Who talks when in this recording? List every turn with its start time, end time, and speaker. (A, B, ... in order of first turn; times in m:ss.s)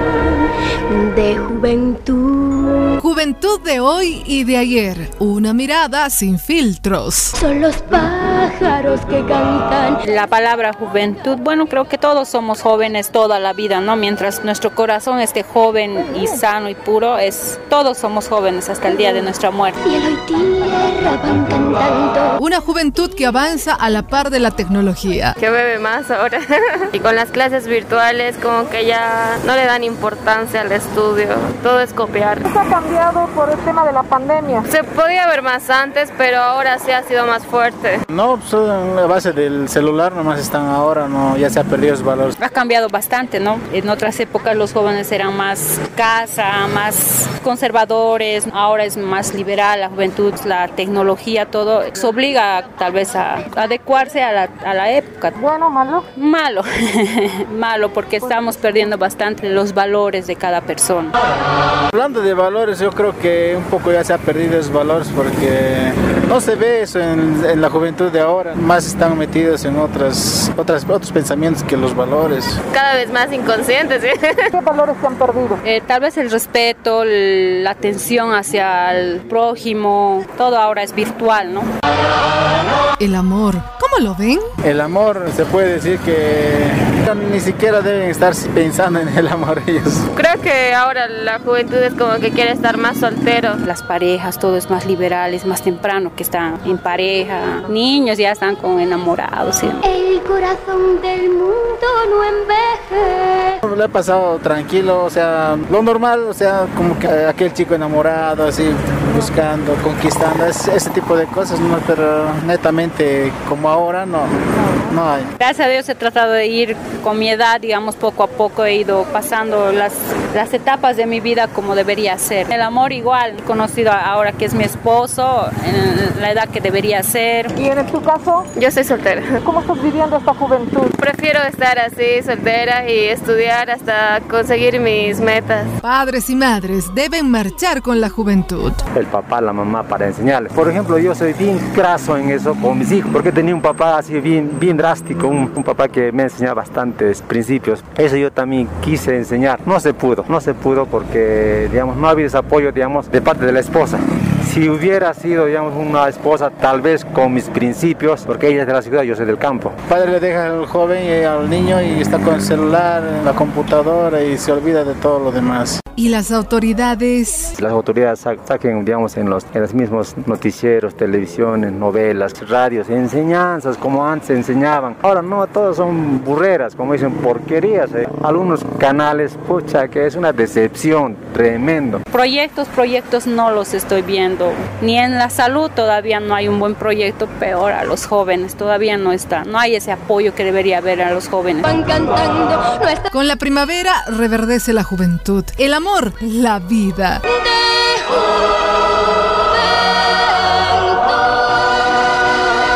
0:00.9-0:03.0 A
0:03.0-0:07.4 B
0:07.4-0:10.0 A
0:10.0-0:19.8 C
0:19.8-0:22.4 A
0:22.4-0:25.4 B
0:25.4-0:32.5 D
0:32.5-0:34.6 E
0:34.7-0:38.0 D
0:38.1-0:42.3 F
0:42.4-0:55.4 C
0:55.4-0:56.0 E
0:56.2-1:01.2 C
0:58.3-0:58.6 E
1:01.9-1:12.6 F
1:12.7-1:14.5 D
1:14.6-1:15.6 E
1:15.6-1:21.7 C
1:23.0-1:24.5 B
1:24.6-1:30.1 F
1:30.1-1:33.6 D
1:33.6-1:39.9 C
1:39.8-1:43.6 A
1:43.7-1:55.3 F
1:55.4-2:07.5 C
2:07.6-2:08.4 E
2:08.6-2:09.4 D
2:09.5-2:10.9 E
2:11.0-2:15.7 D
2:15.8-2:18.8 B
2:18.9-2:39.8 G
2:39.9-2:45.8 F
2:46.0-2:47.6 B
2:47.6-3:02.0 G
3:02.1-3:11.8 C
3:11.7-3:13.1 A
3:13.1-3:17.2 B
3:17.3-3:18.4 A
3:19.6-3:21.6 A